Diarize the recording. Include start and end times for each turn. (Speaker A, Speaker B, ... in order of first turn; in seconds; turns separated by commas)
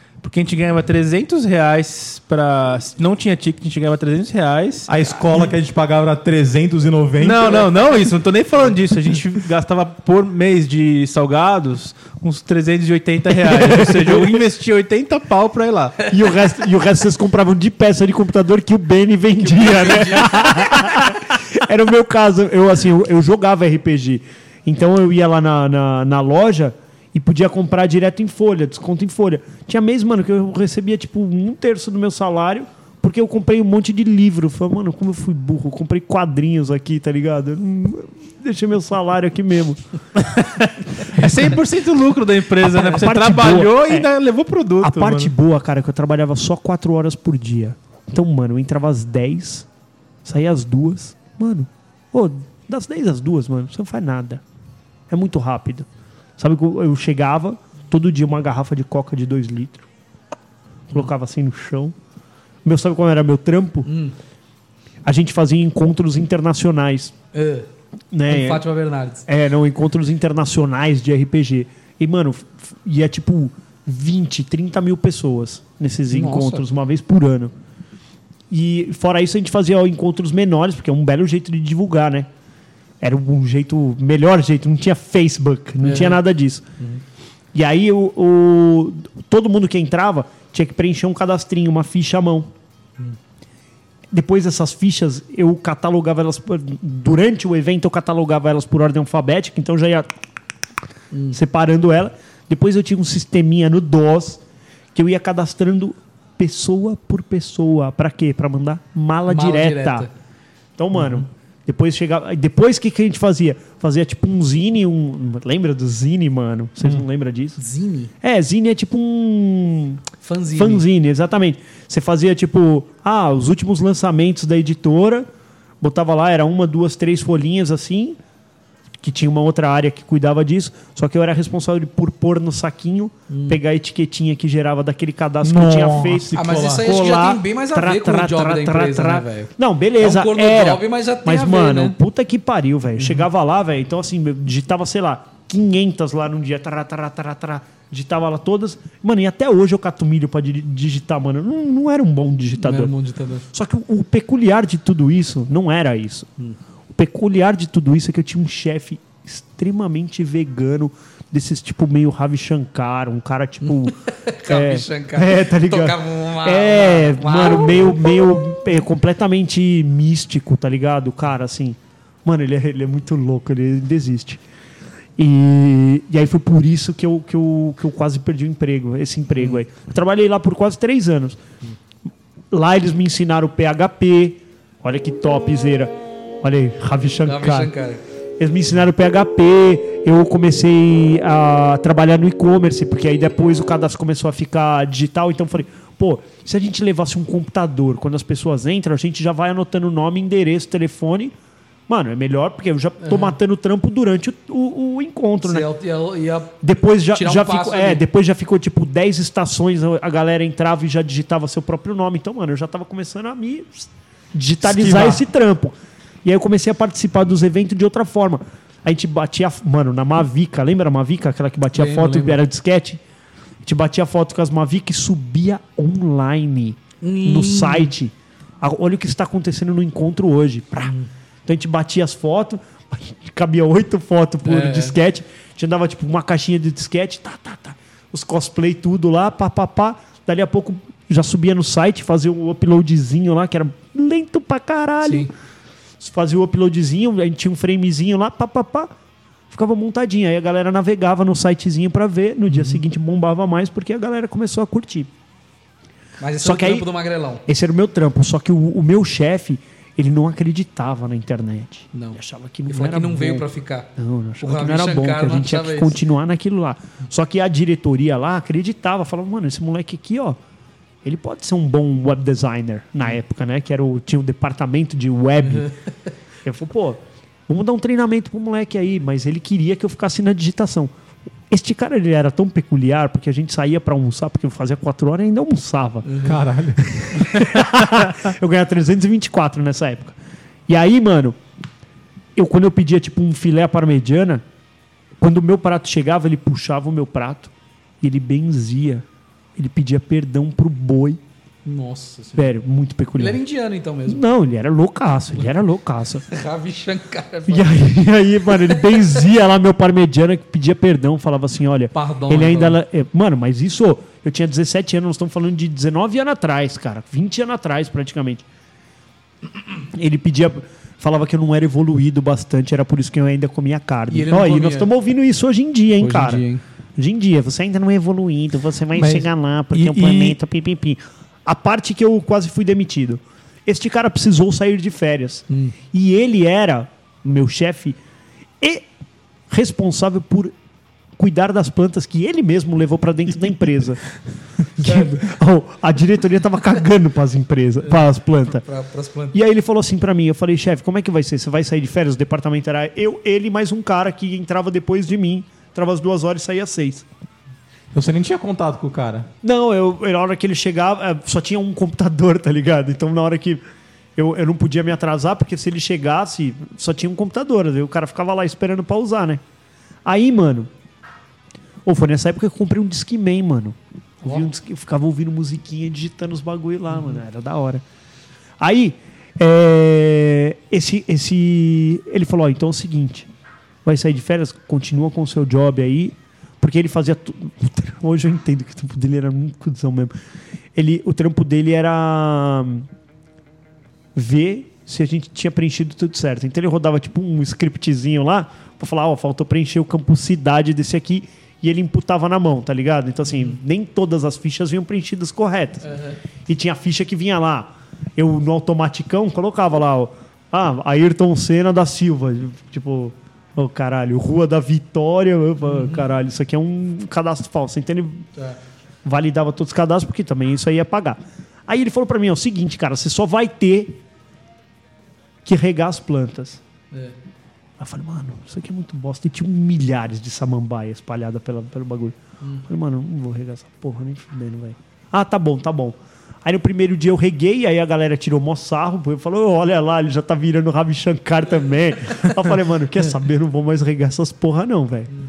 Speaker A: 0.2-4.9, Speaker B: 4.9-7.7, Speaker A: 7.2-16.0, Speaker C: 13.4-14.4, Speaker C: 16.1-39.8, Speaker D: 19.4-20.9, Speaker A: 40.2-45.3, Speaker C: 42.6-44.1, Speaker C: 44.8-49.7, Speaker C: 50.2-54.4, Speaker C: 55.1-55.9, Speaker C: 56.4-59.9, Speaker C: 60.9-61.9, Speaker C: 62.6-63.9, Speaker D: 63.9-64.2, Speaker C: 65.0-67.2, Speaker D: 67.3-67.7, Speaker C: 68.1-68.7, Speaker D: 68.3-69.2, Speaker C: 69.3-77.5, Speaker D: 76.1-76.7, Speaker C: 78.5-82.3, Speaker C: 83.0-86.6, Speaker D: 85.8-86.2, Speaker C: 87.5-92.5, Speaker C: 94.1-100.1, Speaker D: 101.1-101.4, Speaker C: 101.3-104.4, Speaker C: 104.9-110.1, Speaker D: 109.3-110.1, Speaker C: 110.8-117.6, Speaker D: 117.6-118.1, Speaker C: 118.2-125.3, Speaker D: 120.2-120.9, Speaker C: 125.8-128.2, Speaker C: 129.0-152.9, Speaker D: 133.3-133.6, Speaker B: 135.4-136.9, Speaker D: 136.3-142.0, Speaker D: 143.0-143.2, Speaker D: 152.6-153.4, Speaker C: 153.5-156.3, Speaker C: 156.9-174.4, Speaker D: 163.6-168.0, Speaker C: 175.2-181.4, Speaker C: 182.5-187.7, Speaker D: 187.2-188.0, Speaker C: 188.4-201.3, Speaker C: 201.9-205.7, Speaker D: 203.0-203.3, Speaker D: 205.4-208.0, Speaker C: 206.6-223.0, Speaker B: 214.6-215.2, Speaker D: 221.7-222.4, Speaker C: 223.6-230.9, Speaker D: 227.0-227.9, Speaker D: 230.8-231.1, Speaker C: 231.5-245.3, Speaker D: 234.4-235.0, Speaker D: 245.0-245.3, Speaker C: 246.0-248.9, Speaker C: 249.5-255.1, Speaker D: 252.5-252.8, Speaker D: 256.2-257.4, Speaker C: 256.4-256.9, Speaker C: 257.5-270.4, Speaker D: 261.9-266.0, Speaker C: 271.0-275.7, Speaker D: 275.5-275.8, Speaker C: 276.4-280.9, Speaker C: 281.5-286.1, Speaker D: 286.1-286.4, Speaker B: 286.2-287.0, Speaker C: 286.8-290.2, Speaker C: 290.7-291.4, Speaker C: 292.4-294.4, Speaker C: 295.2-299.1, Speaker C: 299.6-301.2, Speaker D: 301.6-302.5, Speaker C: 302.4-303.4, Speaker D: 303.2-304.2, Speaker C: 304.1-306.3, Speaker D: 306.3-308.0, Speaker C: 307.5-318.4, Speaker D: 308.6-309.0, Speaker D: 311.9-312.8, Speaker C: 319.9-326.4, Speaker D: 324.1-324.9, Speaker D: 326.0-326.6, Speaker C: 327.0-338.0, Speaker B: 329.8-330.3, Speaker D: 335.5-335.8, Speaker C: 338.6-338.9, Speaker C: 339.5-340.5, Speaker C: 341.2-344.0, Speaker C: 344.8-348.6, Speaker D: 347.8-349.4, Speaker C: 349.3-357.1, Speaker B: 357.9-359.3, Speaker C: 359.4-363.6, Speaker C: 364.2-369.4, Speaker C: 370.1-370.7, Speaker C: 371.9-377.8, Speaker C: 378.6-383.3, Speaker C: 383.9-390.1, Speaker C: 390.8-392.9, Speaker C: 394.1-405.9, Speaker D: 405.8-406.2, Speaker C: 406.5-418.3, Speaker D: 415.6-416.1, Speaker C: 419.1-424.0, Speaker C: 425.4-426.6, Speaker C: 427.8-445.1, Speaker D: 432.4-432.7